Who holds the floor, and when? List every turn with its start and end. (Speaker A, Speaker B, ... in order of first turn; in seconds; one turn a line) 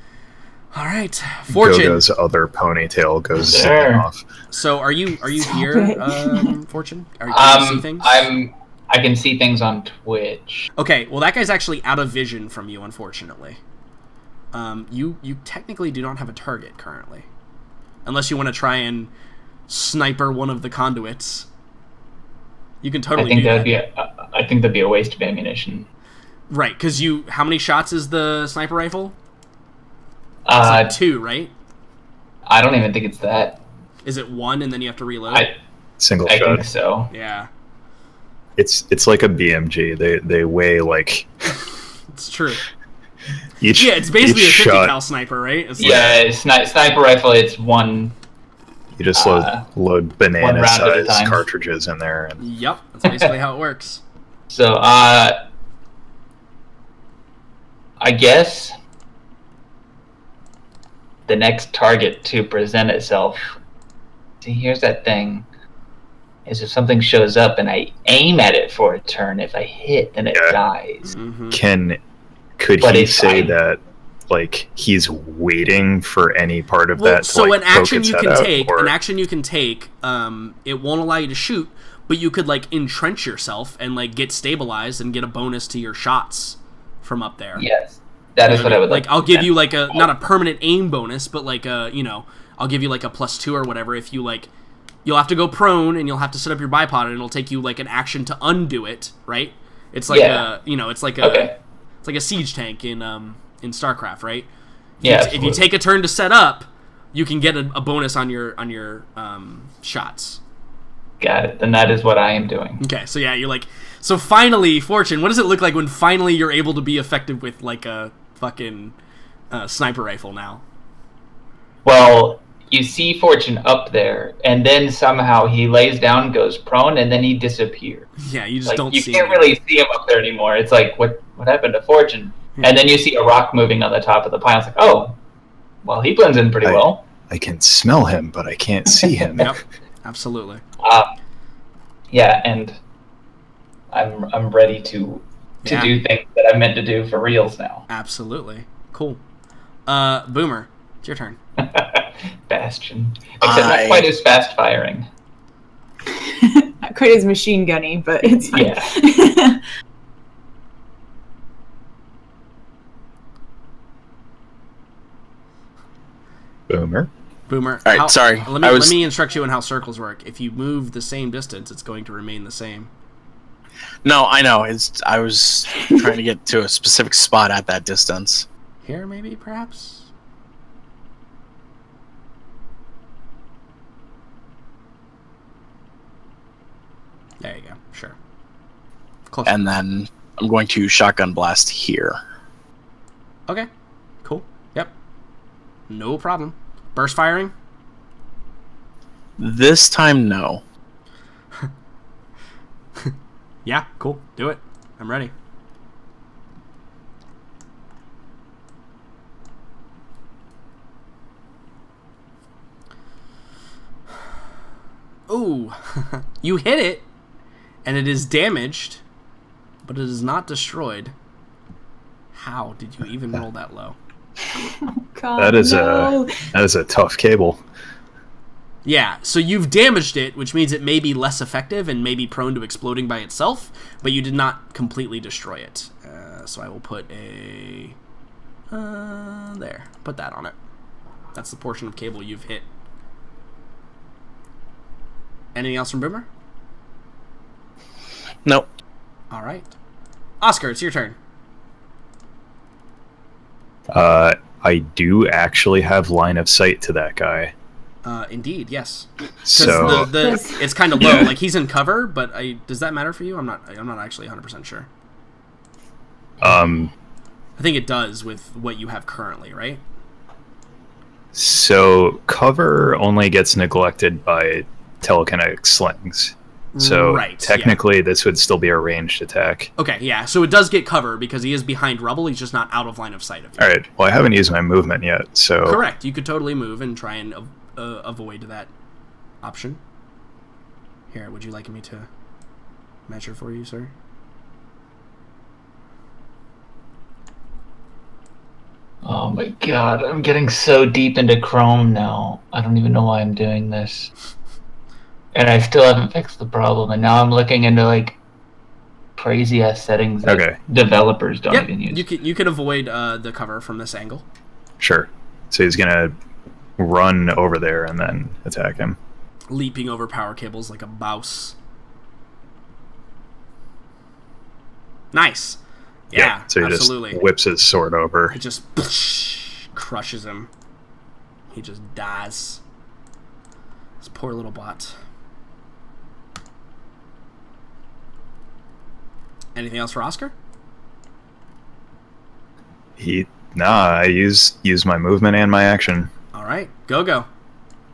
Speaker A: 0.7-2.0
Speaker B: 1.5-4.2
Speaker C: 3.4-4.1
Speaker A: 4.5-8.3
Speaker D: 5.5-6.5
Speaker C: 7.3-10.7
Speaker A: 10.8-13.6
Speaker A: 14.5-17.3
Speaker A: 18.1-19.1
Speaker A: 19.7-21.5
Speaker A: 22.8-23.7
Speaker C: 23.1-25.9
Speaker A: 26.5-29.2
Speaker C: 30.5-31.0
Speaker A: 30.6-31.5
Speaker C: 32.5-33.6
Speaker A: 34.0-35.5
Speaker B: 36.0-36.6
Speaker C: 36.2-37.1
Speaker A: 37.1-37.5
Speaker B: 38.6-41.3
Speaker A: 42.1-42.6
Speaker B: 43.6-44.9
Speaker A: 43.7-46.2
Speaker C: 45.8-48.1
Speaker B: 49.0-52.4
Speaker C: 49.1-49.7
Speaker C: 50.4-51.4
Speaker A: 52.4-54.0
Speaker C: 54.5-55.4
Speaker C: 58.0-58.8
Speaker C: 61.3-63.6
Speaker C: 64.4-65.5
Speaker C: 66.5-71.1
Speaker A: 71.0-71.6
Speaker B: 71.5-72.0
Speaker B: 72.6-78.9
Speaker C: 72.8-73.6
Speaker A: 77.0-87.6
Speaker C: 87.6-90.1
Speaker A: 88.5-94.5
Speaker A: 95.0-101.5
Speaker C: 100.1-100.5
Speaker C: 101.2-101.5
Speaker A: 102.0-104.5
Speaker A: 105.0-110.4
Speaker C: 105.0-105.6
Speaker C: 111.2-112.8
Speaker A: 112.8-119.0
Speaker A: 119.5-120.6
Speaker C: 121.8-128.1
Speaker A: 128.2-129.6
Speaker C: 128.7-135.2
Speaker C: 135.8-137.0
Speaker B: 136.6-139.6
Speaker A: 139.4-140.6
Speaker C: 140.8-141.1
Speaker C: 142.1-142.8
Speaker C: 143.9-147.9
Speaker A: 145.6-145.9
Speaker A: 147.9-149.2
Speaker A: 149.9-151.4
Speaker C: 151.6-155.1
Speaker E: 153.4-154.1
Speaker D: 156.1-159.6
Speaker C: 158.3-158.9
Speaker B: 166.7-167.1
Speaker A: 167.5-172.9
Speaker E: 167.9-169.0
Speaker E: 174.0-178.5
Speaker A: 178.8-180.1
Speaker A: 187.4-188.2
Speaker A: 189.3-189.6
Speaker E: 189.5-192.2
Speaker A: 194.2-194.9
Speaker A: 195.9-197.5
Speaker E: 199.4-200.6
Speaker A: 203.7-205.3
Speaker A: 215.3-217.1
Speaker A: 217.8-219.0
Speaker A: 219.8-221.1
Speaker A: 222.3-224.0
Speaker D: 224.6-226.5
Speaker B: 225.4-227.6
Speaker A: 228.8-238.0
Speaker A: 238.7-240.5
Speaker A: 241.3-242.7
Speaker A: 245.6-246.3
Speaker A: 249.3-249.7
Speaker A: 250.4-251.2
Speaker B: 253.9-257.5
Speaker A: 258.0-264.9
Speaker B: 259.5-260.1
Speaker D: 259.6-261.1
Speaker B: 266.4-266.9
Speaker A: 267.6-269.8
Speaker B: 271.3-279.7
Speaker A: 276.7-277.8
Speaker A: 279.8-283.7
Speaker B: 283.6-285.8
Speaker A: 285.6-288.7
Speaker A: 289.4-289.8
Speaker A: 291.1-292.1
Speaker A: 293.1-293.9
Speaker C: 299.0-304.1
Speaker C: 305.3-308.2
Speaker C: 309.2-312.0
Speaker B: 310.2-310.6
Speaker A: 311.5-314.2
Speaker B: 314.8-316.1
Speaker B: 316.8-319.0
Speaker A: 319.5-321.6
Speaker A: 325.1-325.6
Speaker A: 326.1-327.2
Speaker B: 326.1-328.4
Speaker A: 328.3-330.5
Speaker A: 331.5-332.6
Speaker A: 334.0-334.9
Speaker A: 339.6-340.3
Speaker B: 343.0-346.1
Speaker A: 346.3-347.3